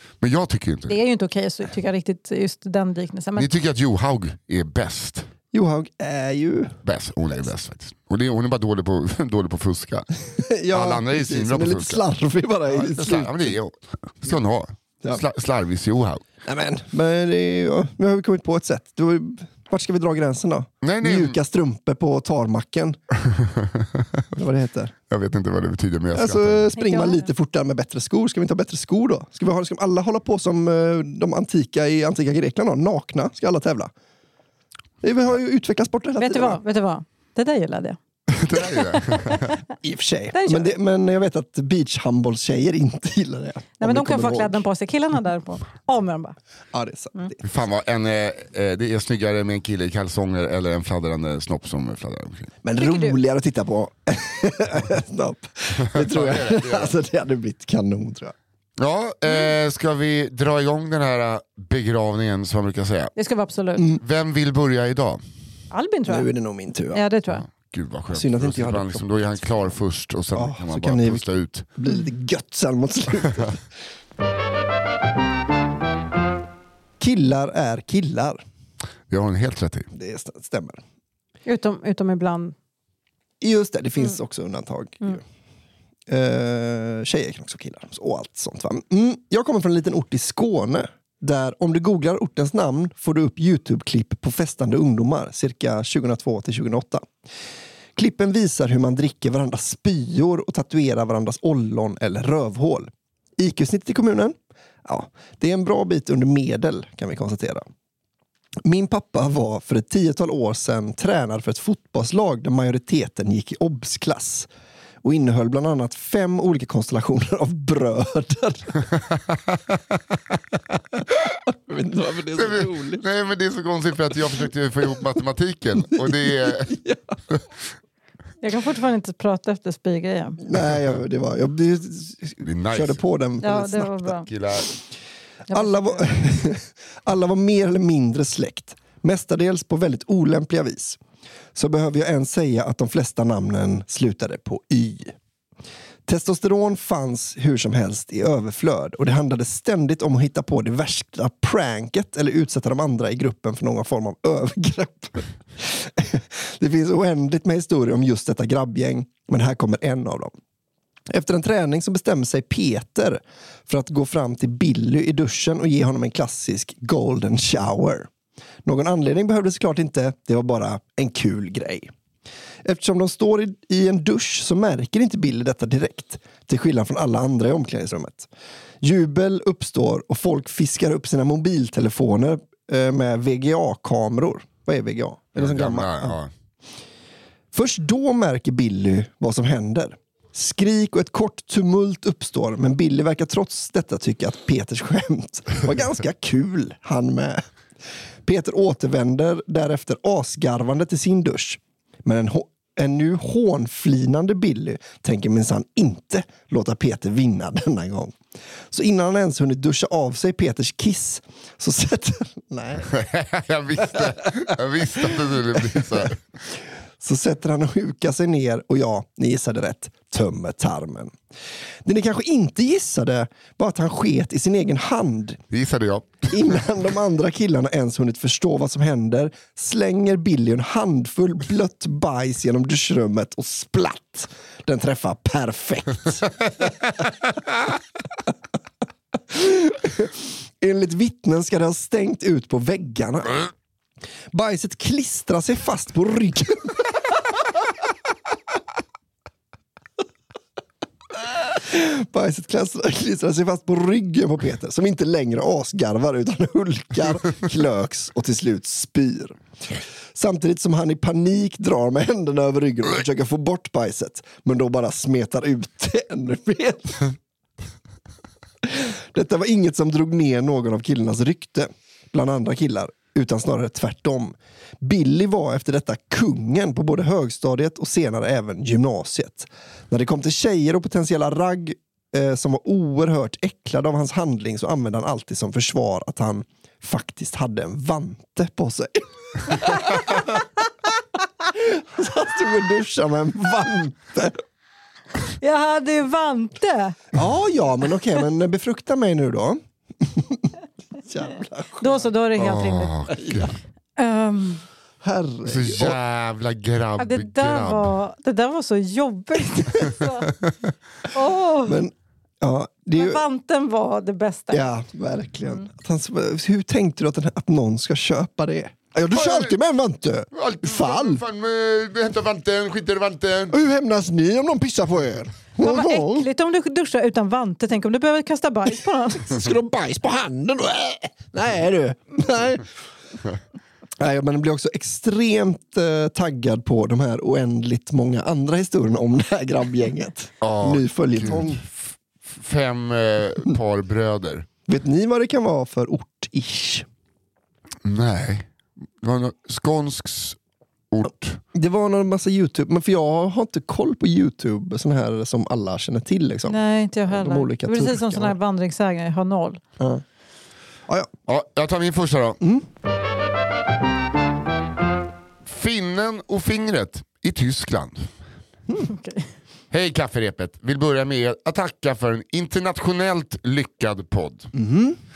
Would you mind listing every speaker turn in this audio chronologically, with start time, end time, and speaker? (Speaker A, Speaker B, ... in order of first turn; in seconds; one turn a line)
Speaker A: 0.2-1.0
Speaker B: 0.9-3.5
Speaker A: 3.4-5.3
Speaker C: 5.5-6.8
Speaker A: 6.8-12.0
Speaker C: 10.4-13.6
Speaker A: 12.7-16.3
Speaker C: 16.4-23.0
Speaker A: 20.8-21.4
Speaker A: 23.3-24.3
Speaker C: 24.4-24.9
Speaker A: 25.1-26.6
Speaker C: 26.1-33.9
Speaker B: 26.8-27.3
Speaker C: 35.0-36.6
Speaker B: 36.2-38.0
Speaker A: 38.3-39.6
Speaker B: 39.3-39.6
Speaker C: 39.7-44.6
Speaker B: 40.3-40.7
Speaker B: 43.8-46.4
Speaker C: 46.7-47.4
Speaker A: 47.4-52.5
Speaker C: 52.6-58.4
Speaker B: 52.8-53.2
Speaker A: 55.8-56.9
Speaker A: 58.8-63.1
Speaker B: 63.2-63.9
Speaker A: 64.0-65.2
Speaker B: 65.7-66.3
Speaker C: 66.1-67.0
Speaker B: 66.9-67.5
Speaker A: 67.5-71.7
Speaker C: 68.1-69.0
Speaker C: 70.3-71.2
Speaker C: 71.8-73.6
Speaker C: 77.0-78.4
Speaker A: 79.1-79.9
Speaker C: 79.9-80.8
Speaker B: 81.5-82.5
Speaker C: 83.4-85.2
Speaker C: 86.1-97.1
Speaker C: 98.0-107.7
Speaker C: 108.6-114.5
Speaker C: 115.0-118.8
Speaker A: 119.3-119.8
Speaker C: 121.0-123.0
Speaker A: 122.3-126.7
Speaker C: 125.9-127.2
Speaker B: 128.4-130.4
Speaker C: 130.4-134.2
Speaker A: 132.4-133.0
Speaker B: 133.4-134.3
Speaker A: 134.3-134.7
Speaker B: 135.5-136.2
Speaker C: 135.5-141.0
Speaker C: 141.6-145.2
Speaker C: 146.1-160.3
Speaker C: 161.1-168.1
Speaker C: 168.7-171.9
Speaker C: 172.6-178.3
Speaker C: 178.8-186.2
Speaker A: 185.4-186.3
Speaker C: 187.5-197.4
Speaker C: 198.2-208.2
Speaker C: 208.7-212.9
Speaker A: 212.9-216.2
Speaker C: 213.9-214.3
Speaker C: 215.0-216.1
Speaker C: 217.0-221.2
Speaker C: 221.8-225.4
Speaker A: 225.5-226.7
Speaker C: 226.3-236.7
Speaker C: 239.3-243.5
Speaker C: 244.3-247.0
Speaker C: 251.1-267.1
Speaker C: 268.6-290.4
Speaker C: 291.4-294.4
Speaker B: 295.4-297.0
Speaker C: 297.1-302.0
Speaker B: 301.8-302.9
Speaker A: 302.4-303.6
Speaker C: 303.1-303.5
Speaker B: 304.0-304.6
Speaker C: 305.0-306.0
Speaker A: 305.5-307.9
Speaker B: 307.0-310.3
Speaker B: 311.1-311.9
Speaker C: 311.6-313.2
Speaker B: 312.9-314.6
Speaker C: 314.5-321.2
Speaker A: 319.1-319.6
Speaker A: 320.3-323.6
Speaker C: 323.5-326.3
Speaker B: 325.6-329.3
Speaker C: 329.3-332.7
Speaker C: 334.0-341.6
Speaker A: 340.4-344.5
Speaker C: 344.7-346.9
Speaker A: 347.8-348.5
Speaker A: 349.0-350.4
Speaker A: 350.9-351.4
Speaker C: 351.5-358.4
Speaker B: 356.5-359.6
Speaker C: 359.8-360.0
Speaker A: 361.3-362.4
Speaker C: 362.4-362.7
Speaker A: 365.4-368.1
Speaker B: 368.8-369.3
Speaker A: 369.7-374.5
Speaker C: 374.6-375.0